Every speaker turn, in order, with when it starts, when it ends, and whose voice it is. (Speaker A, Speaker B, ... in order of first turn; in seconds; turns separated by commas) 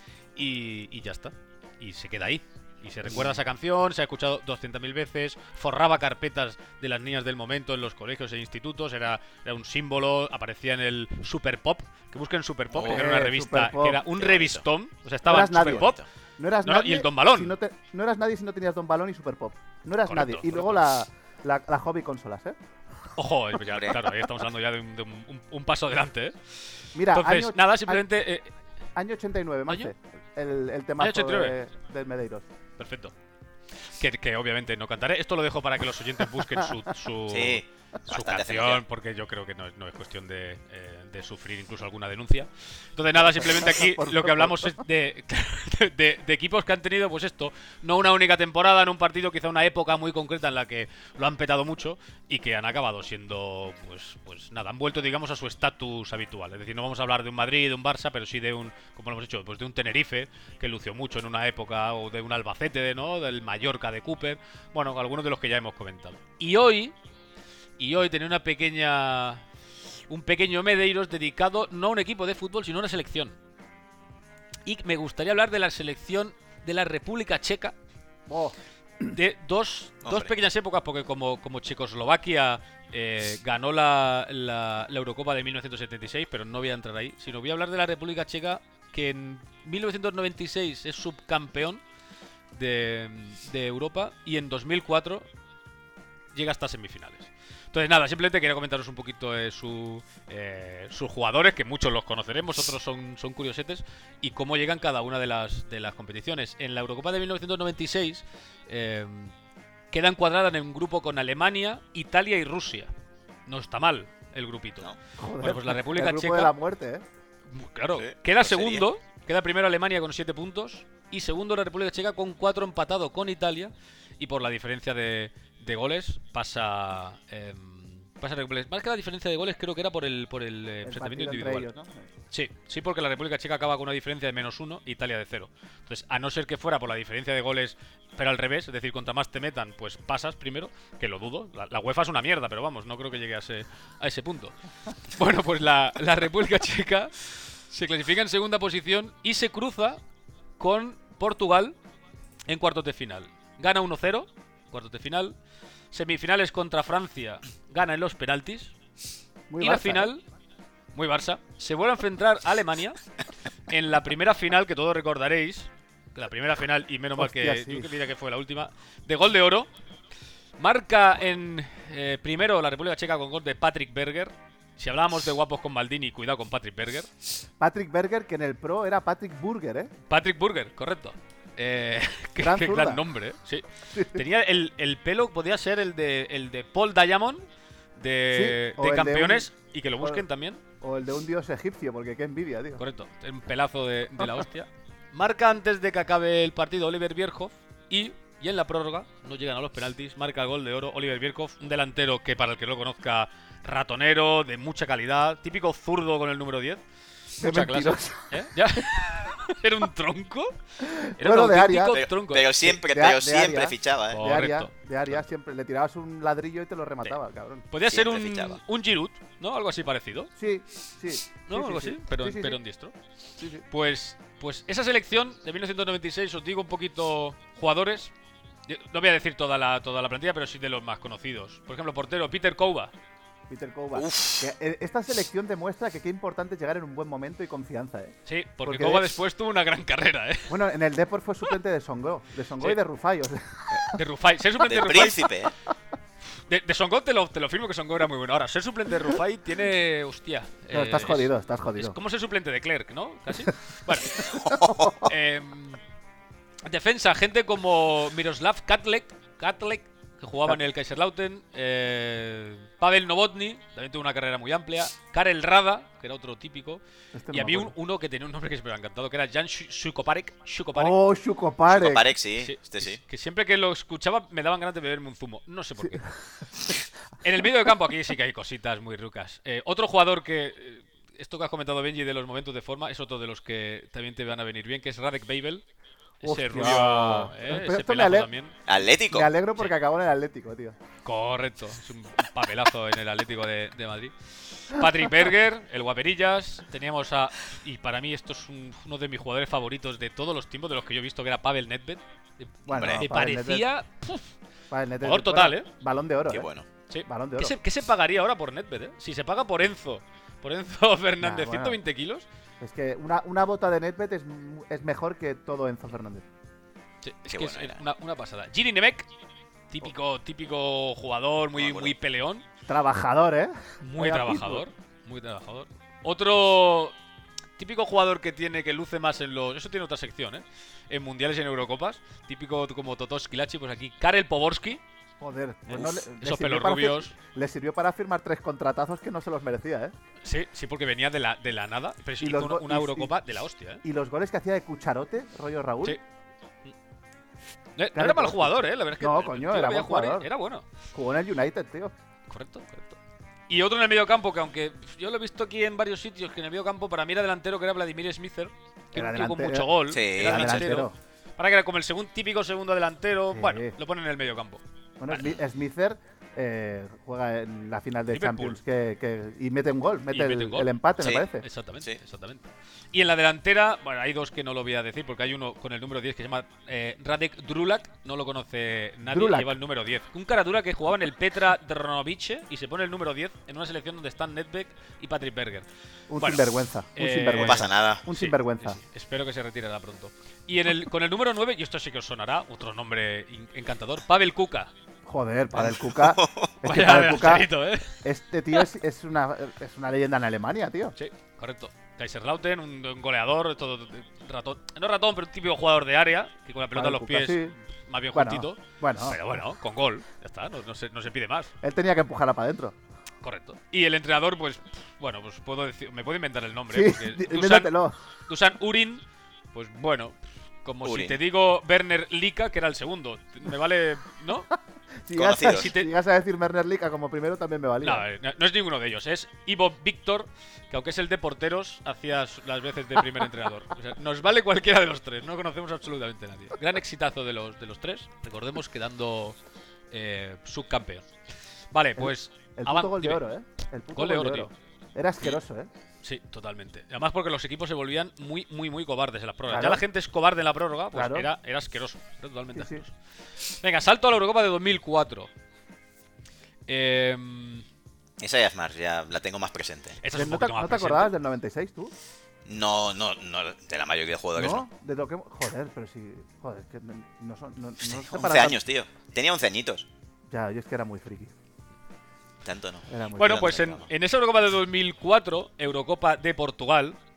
Speaker A: 0.4-16.0, Speaker B: 12.7-13.0, Speaker C: 12.9-14.1, Speaker B: 14.2-14.6, Speaker C: 15.3-22.6, Speaker B: 15.6-16.1, Speaker A: 16.6-17.6, Speaker A: 20.1-21.0, Speaker A: 23.2-26.4, Speaker B: 23.7-24.0, Speaker C: 26.9-28.0, Speaker A: 27.1-28.5, Speaker C: 29.0-32.5, Speaker A: 29.7-29.9, Speaker A: 31.0-31.6, Speaker A: 32.8-33.1, Speaker A: 34.0-67.0, Speaker B: 37.3-38.8, Speaker C: 43.2-44.8, Speaker A: 67.8-69.5, Speaker A: 70.1-73.4, Speaker A: 74.7-77.8, Speaker C: 78.3-78.6, Speaker A: 79.1-91.8, Speaker B: 80.0-80.3, Speaker A: 92.5-95.3, Speaker A: 96.3-109.3, Speaker A: 109.9-112.9, Speaker A: 113.5-116.5, Speaker C: 115.2-117.0, Speaker A: 117.5-131.7, Speaker B: 117.9-118.8, Speaker C: 130.8-132.1, Speaker A: 132.3-150.0, Speaker A: 150.6-151.8, Speaker A: 152.5-155.4, Speaker A: 155.9-158.7, Speaker C: 159.5-160.1, Speaker A: 159.6-160.2, Speaker A: 160.9-163.0, Speaker A: 163.7-169.7, Speaker C: 167.2-167.9, Speaker A: 170.6-177.1, Speaker C: 177.6-179.9, Speaker A: 180.1-187.4, Speaker C: 182.4-183.0, Speaker C: 183.9-184.2, Speaker A: 188.0-190.6, Speaker C: 188.3-190.2, Speaker C: 190.8-192.8, Speaker A: 192.8-206.8, Speaker A: 207.3-212.8, Speaker C: 207.4-208.5, Speaker C: 210.8-212.0, Speaker B: 211.9-214.2, Speaker C: 212.7-217.7, Speaker A: 214.1-215.2, Speaker A: 217.7-220.3, Speaker B: 217.9-218.6, Speaker C: 220.4-222.6, Speaker A: 221.5-222.9, Speaker C: 223.4-223.6, Speaker A: 223.7-228.1, Speaker A: 228.7-232.9, Speaker C: 233.5-239.1, Speaker B: 234.0-234.5, Speaker A: 238.3-240.5, Speaker C: 240.5-244.0, Speaker A: 243.7-245.3, Speaker B: 244.6-245.6, Speaker A: 246.5-254.4, Speaker C: 250.7-252.0, Speaker B: 254.3-254.9, Speaker C: 254.5-255.1, Speaker A: 255.0-255.8, Speaker A: 256.6-271.0, Speaker C: 267.1-267.8, Speaker C: 270.8-272.1, Speaker B: 271.7-273.0, Speaker A: 272.4-276.1, Speaker A: 277.2-285.6, Speaker A: 286.2-288.6, Speaker C: 286.2-288.3, Speaker B: 288.7-289.3, Speaker C: 289.0-290.8, Speaker A: 291.1-304.2, Speaker C: 302.7-303.7, Speaker B: 302.7-303.1, Speaker C: 304.7-306.5, Speaker A: 305.0-305.7, Speaker B: 306.3-306.6, Speaker A: 306.9-312.3, Speaker C: 307.1-307.6, Speaker C: 311.2-311.8, Speaker C: 312.6-316.3, Speaker A: 317.0-319.1, Speaker B: 317.3-317.8, Speaker A: 319.7-322.4, Speaker B: 321.6-321.9, Speaker C: 322.7-324.6, Speaker A: 323.8-327.0, Speaker A: 327.6-334.8, Speaker C: 335.2-339.9, Speaker A: 335.7-337.1, Speaker A: 340.2-343.8, Speaker C: 342.2-343.2, Speaker C: 343.8-346.0, Speaker A: 347.8-350.6, Speaker C: 347.9-350.3, Speaker C: 350.9-351.9, Speaker A: 352.3-365.3, Speaker C: 358.9-361.0, Speaker B: 359.9-360.7, Speaker C: 363.3-363.8, Speaker C: 365.0-371.4, Speaker A: 368.1-368.6, Speaker A: 370.1-385.7, Speaker B: 371.0-371.2, Speaker C: 379.1-379.6, Speaker C: 386.1-388.8, Speaker A: 386.2-394.7, Speaker B: 387.4-388.0, Speaker C: 395.1-400.9, Speaker B: 395.6-396.5, Speaker A: 396.6-398.0, Speaker A: 400.9-411.5, Speaker C: 406.7-407.6, Speaker C: 408.1-409.2, Speaker C: 411.6-412.8, Speaker A: 413.2-417.7, Speaker C: 416.7-418.0, Speaker A: 418.3-419.0, Speaker A: 419.5-424.5, Speaker B: 420.8-421.2, Speaker C: 425.0-428.1, Speaker B: 425.1-425.7, Speaker A: 425.2-425.9, Speaker A: 427.8-439.4, Speaker A: 439.9-441.1, Speaker A: 441.7-443.2, Speaker C: 442.0-445.7, Speaker A: 443.9-444.5, Speaker A: 446.0-452.9, Speaker C: 449.5-449.8, Speaker C: 450.9-451.3, Speaker C: 452.5-452.8, Speaker A: 453.5-455.3, Speaker A: 456.7-457.6, Speaker B: 458.2-460.0, Speaker A: 460.0-461.1, Speaker C: 460.1-461.9, Speaker B: 462.5-464.7, Speaker C: 464.4-468.6, Speaker B: 467.8-469.9, Speaker C: 470.3-471.3, Speaker B: 472.4-473.9, Speaker C: 472.9-473.4, Speaker A: 473.2-477.0